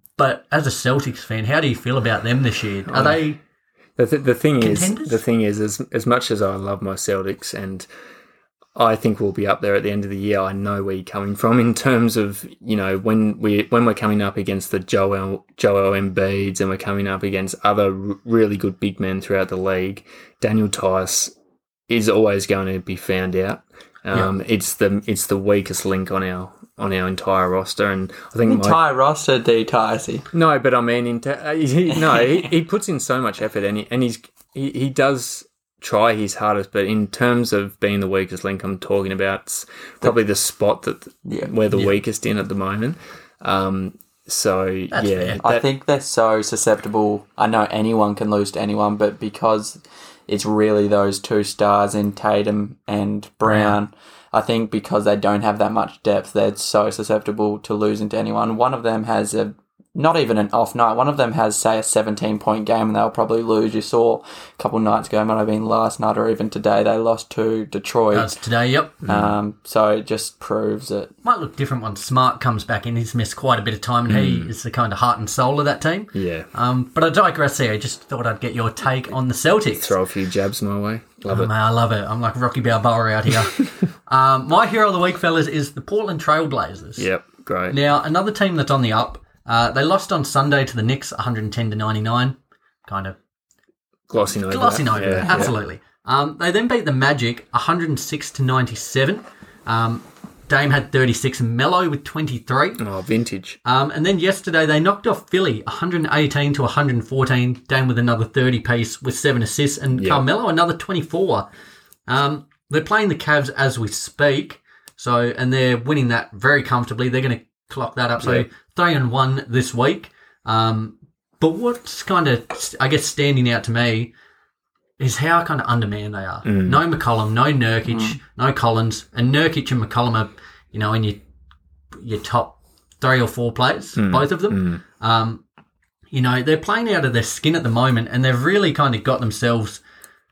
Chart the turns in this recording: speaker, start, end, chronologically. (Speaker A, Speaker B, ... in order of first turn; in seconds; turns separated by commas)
Speaker A: 0.2-3.4, Speaker B: 2.9-3.2, Speaker B: 4.0-7.9, Speaker A: 4.6-5.2, Speaker B: 8.8-21.3, Speaker B: 21.9-28.8, Speaker C: 28.5-30.3, Speaker B: 30.3-45.6, Speaker C: 32.1-32.5, Speaker C: 41.2-41.5, Speaker A: 41.7-42.0, Speaker A: 44.9-45.4, Speaker C: 45.4-68.4, Speaker A: 53.4-53.8, Speaker A: 68.1-69.0, Speaker B: 69.0-69.3, Speaker C: 69.0-71.1, Speaker A: 71.2-80.0, Speaker B: 74.1-74.5, Speaker B: 76.1-76.5, Speaker B: 79.7-81.5, Speaker A: 81.3-87.1, Speaker B: 87.0-87.8, Speaker A: 87.7-93.2, Speaker B: 94.1-95.5, Speaker A: 94.5-102.8, Speaker C: 95.2-95.5, Speaker B: 102.8-103.6, Speaker A: 103.6-111.5, Speaker B: 109.9-110.2, Speaker A: 112.1-124.1, Speaker A: 125.0-131.2, Speaker B: 126.4-126.8, Speaker C: 127.9-128.2, Speaker A: 131.9-135.4, Speaker B: 134.0-134.8, Speaker A: 136.1-139.8